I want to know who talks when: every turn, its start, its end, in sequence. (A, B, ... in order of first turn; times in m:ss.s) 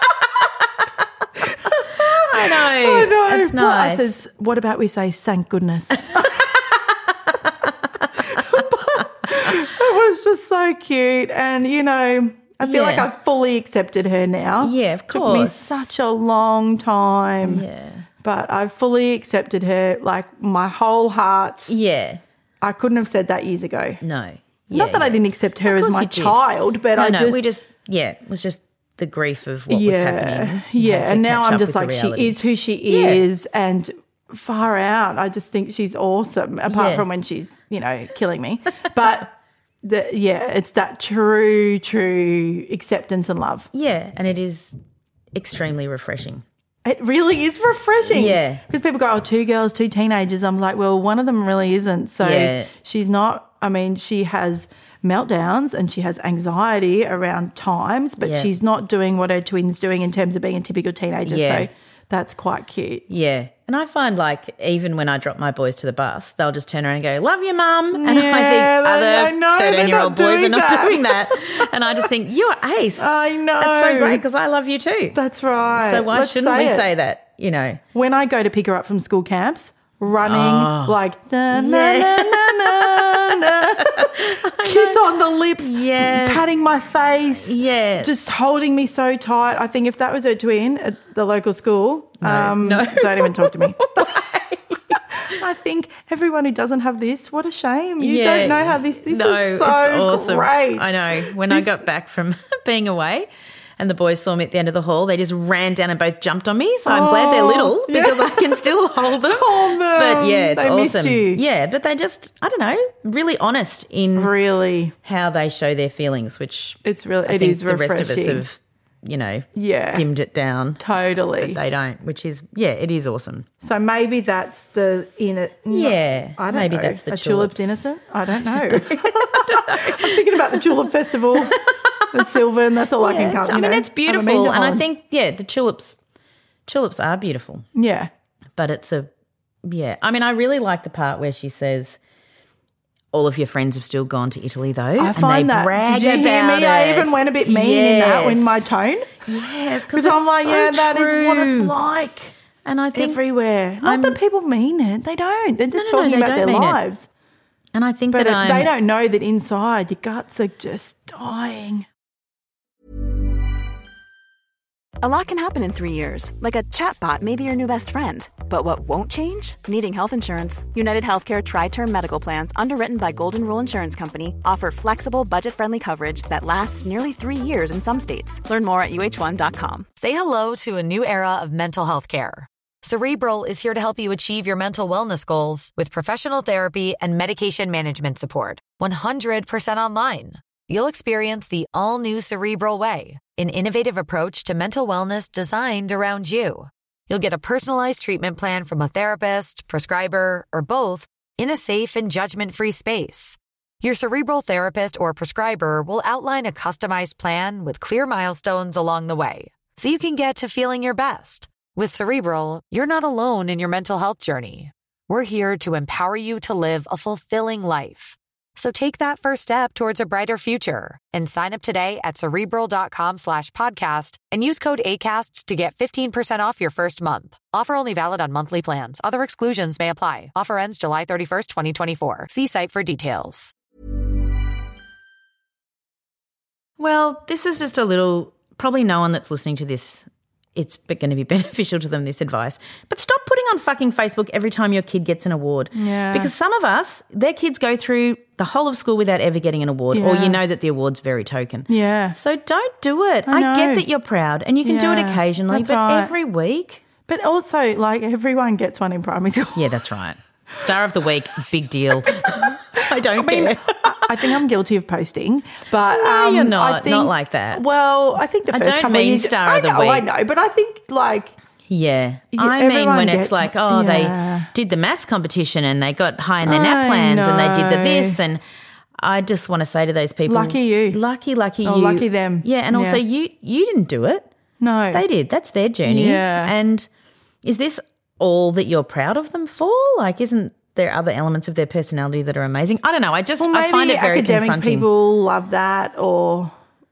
0:01.7-0:06.5 A
0:01.9-0:04.2 B
0:08.2-0:17.7 A
0:12.6-0:13.1 B
0:14.6-0:15.9 B
0:17.4-0:18.1 B
0:18.2-0:21.7 A
0:21.7-0:22.2 B
0:22.6-0:24.0 A
0:24.0-0:26.4 B
0:24.7-0:27.4 A
0:27.0-0:33.2 B
0:29.7-0:43.7 A
0:36.7-0:37.1 B
0:43.7-0:44.7 B
0:45.4-0:46.4 B
0:46.8-1:03.1 A
0:48.1-0:48.6 B
0:52.2-0:52.7 B
0:58.2-0:58.5 B
1:01.3-1:01.7 B
1:03.1-1:15.2 B
1:07.9-1:12.0 A
1:13.0-1:14.2 A
1:15.1-1:16.9 A
1:15.8-1:17.8 B
1:17.9-1:34.4 A
1:20.2-1:21.0 B
1:21.5-1:26.4 B
1:27.4-1:28.1 B
1:32.2-1:35.0 B
1:34.9-1:41.8 A
1:38.0-1:54.3 B
1:46.8-1:48.7 A
1:49.2-1:51.4 A
1:54.2-1:55.0 A
1:55.0-2:00.8 B
1:56.8-1:58.4 A
1:59.6-2:00.1 A
2:00.8-2:01.6 A
2:01.4-2:03.5 B
2:03.6-2:14.8 A
2:05.7-2:07.9 B
2:08.4-2:10.6 B
2:11.4-2:12.2 B
2:13.0-2:16.0 B
2:16.7-2:17.7 B
2:17.8-2:18.1 A
2:18.6-2:19.1 B
2:19.6-2:22.0 B
2:23.1-2:28.7 B
2:25.0-2:29.2 A
2:29.2-2:31.8 B
2:29.9-2:32.3 A
2:32.6-2:33.2 B
2:32.9-2:37.1 A
2:33.8-2:34.2 B
2:35.7-2:36.8 B
2:37.7-2:38.7 B
2:38.1-2:41.9 A
2:45.0-2:59.9 C
3:00.0-3:53.5 D
3:56.8-4:16.8 B
4:05.8-4:06.3 A
4:09.9-4:10.4 A
4:11.7-4:12.2 A
4:13.3-4:13.9 A
4:14.6-4:16.1 A
4:17.1-4:19.8 A
4:19.6-4:24.4 B
4:22.0-4:31.3 A
4:25.9-4:27.6 B
4:28.5-4:30.1 B
4:31.7-4:38.4 B
4:32.3-4:34.5 A
4:36.4-4:38.2 A
4:39.0-4:44.3 B
4:40.3-4:41.0 A
4:41.6-4:43.0 A
4:44.6-4:45.0 A
4:44.9-4:46.9 B
4:45.8-4:46.5 A
4:47.4-4:54.9 B
4:53.4-4:56.5 A